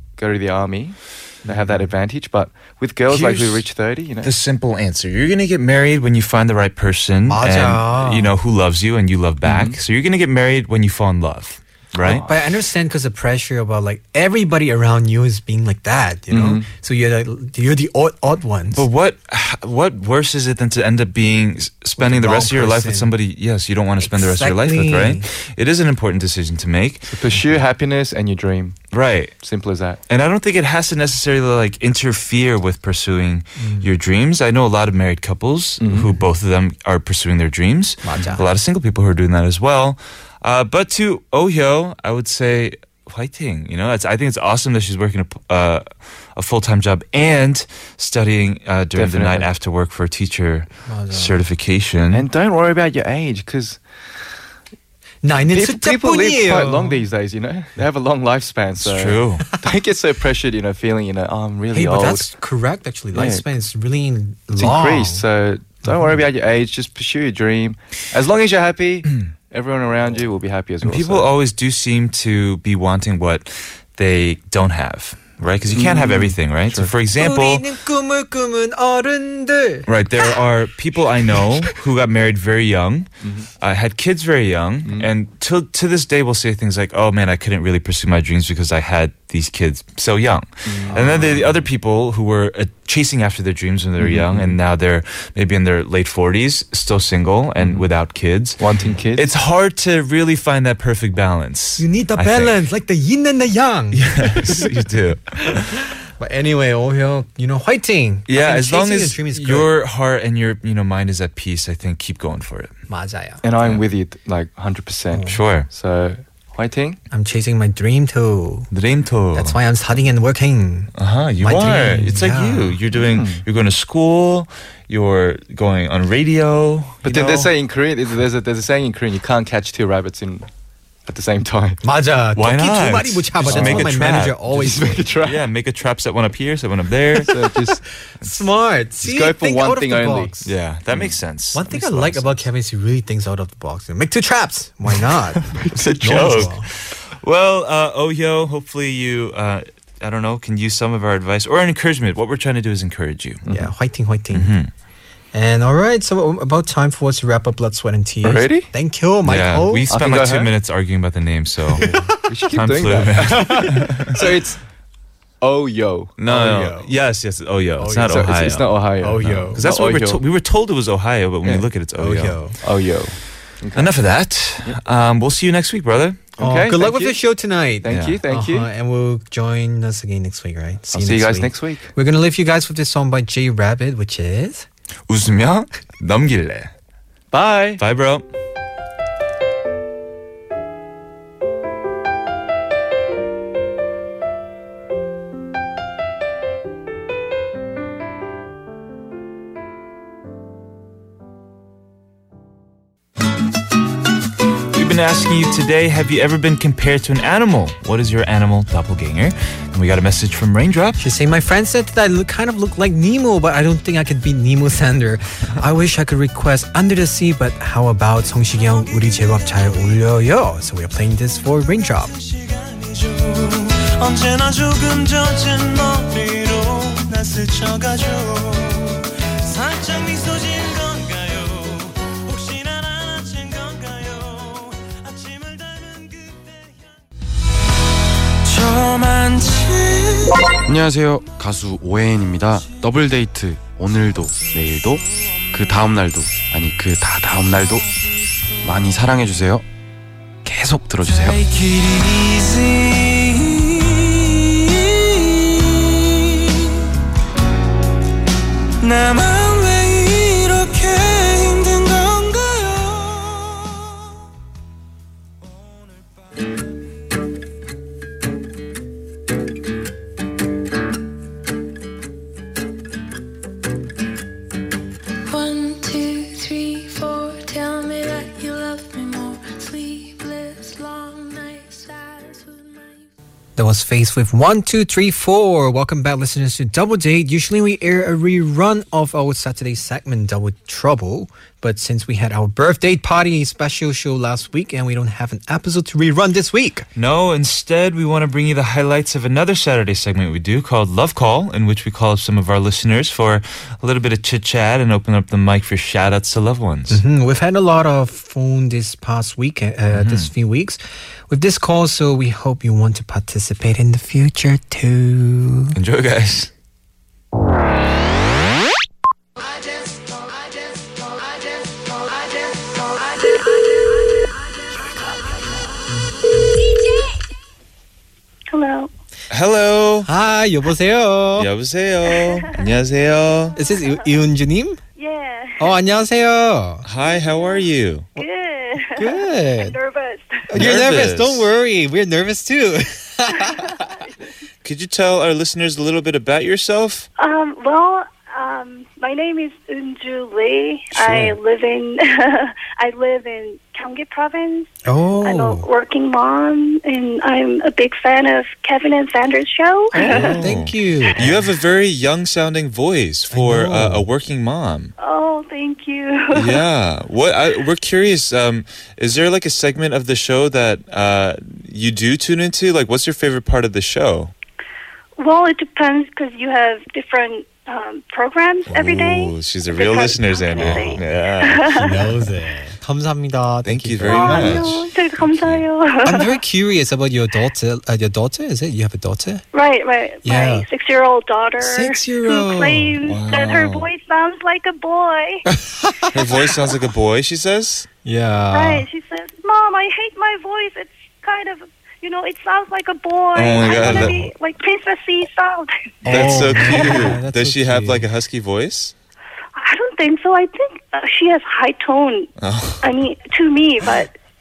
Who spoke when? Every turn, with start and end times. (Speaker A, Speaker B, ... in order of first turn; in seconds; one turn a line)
Speaker A: 0.2-4.3
Speaker B: 1.4-1.8
Speaker C: 3.1-3.6
Speaker C: 4.2-12.3
Speaker B: 7.3-8.3
Speaker A: 9.4-9.8
Speaker A: 12.0-12.3
Speaker B: 12.1-18.9
Speaker A: 16.3-16.7
Speaker C: 18.7-27.1
Speaker B: 22.0-23.1
Speaker B: 24.0-25.3
Speaker A: 27.1-28.8
Speaker C: 28.9-29.4
Speaker A: 29.4-30.0
Speaker C: 30.1-52.2
Speaker B: 33.6-33.9
Speaker A: 35.8-36.1
Speaker B: 38.0-38.5
Speaker A: 49.0-49.5
Speaker B: 50.9-51.4
Speaker A: 52.1-53.8
Speaker B: 55.2-57.0
Speaker A: 55.5-62.3
Speaker C: 58.8-59.5
Speaker B: 61.7-65.2
Speaker A: 63.1-63.5
Speaker A: 64.6-71.3
Speaker C: 70.8-77.7
Speaker A: 75.7-76.9
Speaker B: 77.2-79.9
Speaker C: 79.9-102.6
Speaker A: 83.2-83.5
Speaker A: 84.8-85.1
Speaker A: 90.7-91.6
Speaker A: 94.0-94.5
Speaker A: 97.6-97.9
Speaker A: 98.6-99.3
Speaker B: 101.8-104.6
Speaker C: 103.9-105.8
Speaker B: 106.2-109.7
Speaker C: 108.3-112.7
Speaker B: 112.9-113.4
Speaker A: 113.4-117.0
Speaker B: 115.1-115.4
Speaker C: 115.3-115.7
Speaker B: 117.1-118.7
Speaker C: 118.7-119.6
Speaker B: 119.3-122.8
Speaker C: 121.0-127.5
Speaker A: 122.9-123.4
Speaker A: 127.0-130.5
Speaker A: 131.1-131.8
Speaker B: 131.8-135.1
Speaker C: 132.4-134.4
Speaker A: 133.5-134.0
Speaker A: 134.5-135.4
Speaker C: 135.2-137.3
Speaker A: 137.2-137.8
Speaker B: 138.2-140.5
Speaker A: 139.0-140.3
Speaker C: 140.4-142.4
Speaker B: 141.5-146.7
Speaker A: 145.5-146.4
Speaker C: 145.7-153.4
Speaker A: 153.4-153.7
Speaker B: 153.5-154.5
Speaker C: 154.3-154.7
Speaker B: 155.3-159.9
Speaker A: 158.2-158.7
Speaker C: 159.2-161.9
Speaker A: 159.9-160.5
Speaker A: 161.8-164.6
Speaker C: 162.5-164.2
Speaker A: 165.4-166.2
Speaker C: 166.2-172.4
Speaker B: 166.3-166.9
Speaker B: 167.8-168.3
Speaker A: 168.0-170.2
Speaker B: 169.0-169.6
Speaker B: 172.0-172.6
Speaker A: 172.6-173.9
Speaker C: 173.8-176.3
Speaker A: 176.4-177.2
Speaker B: 176.4-184.7
Speaker A: 177.8-178.7
Speaker C: 177.9-178.2
Speaker A: 180.9-181.9
Speaker C: 185.1-186.7
Speaker A: 187.3-187.8
Speaker C: 187.8-188.3
Speaker C: 204.7-211.0
Speaker B: 211.0-222.1
Speaker D: 218.6-219.7
Speaker D: 222.1-236.9
Speaker D: 238.4-240.4
Speaker E: 240.7-247.9
Speaker E: 248.6-249.7
Speaker E: 250.4-251.4
Speaker D: 251.0-256.8
Speaker D: 258.8-263.9
Speaker D: 265.4-266.2
Speaker F: 275.3-283.1
Speaker B: 283.6-296.9
Speaker C: 297.0-307.0
Speaker B: 306.9-315.8
Speaker C: 309.9-310.3
Speaker C: 315.8-316.5
Speaker G: 328.5-328.9
Speaker C: 329.3-330.1
Speaker B: 330.1-331.5
Speaker C: 331.4-333.6
Speaker G: 332.1-332.6
Speaker B: 333.6-334.8
Speaker G: 335.0-335.7
Speaker B: 335.6-336.9
Speaker C: 336.9-338.1
Speaker G: 337.0-340.5
Speaker B: 338.9-339.8
Speaker B: 340.5-343.8
Speaker C: 340.5-341.5
Speaker G: 343.4-344.0
Speaker C: 344.6-347.1
Speaker G: 347.2-354.7
Speaker B: 351.0-351.3
Speaker B: 354.9-355.7
Speaker G: 355.2-360.5
Speaker B: 359.9-361.5
Speaker C: 360.0-364.9
Speaker B: 363.3-364.1
Speaker G: 365.0-366.6
Speaker C: 366.3-374.3
Speaker G: 375.2-382.0
Speaker C: 378.7-382.1
Speaker B: 380.6-381.0
Speaker B: 381.7-384.8
Speaker C: 383.6-385.7
Speaker G: 384.1-386.4
Speaker B: 386.0-389.4
Speaker G: 389.5-395.4
Speaker B: 390.2-390.7
Speaker B: 391.6-393.0
Speaker C: 393.0-393.9
Speaker B: 395.5-396.5
Speaker C: 396.1-397.9
Speaker B: 398.1-398.9
Speaker G: 398.5-405.7
Speaker C: 403.3-404.3
Speaker B: 403.6-404.2
Speaker B: 406.1-408.1
Speaker C: 406.1-408.9
Speaker G: 409.6-412.3
Speaker C: 412.4-412.9
Speaker G: 412.8-414.1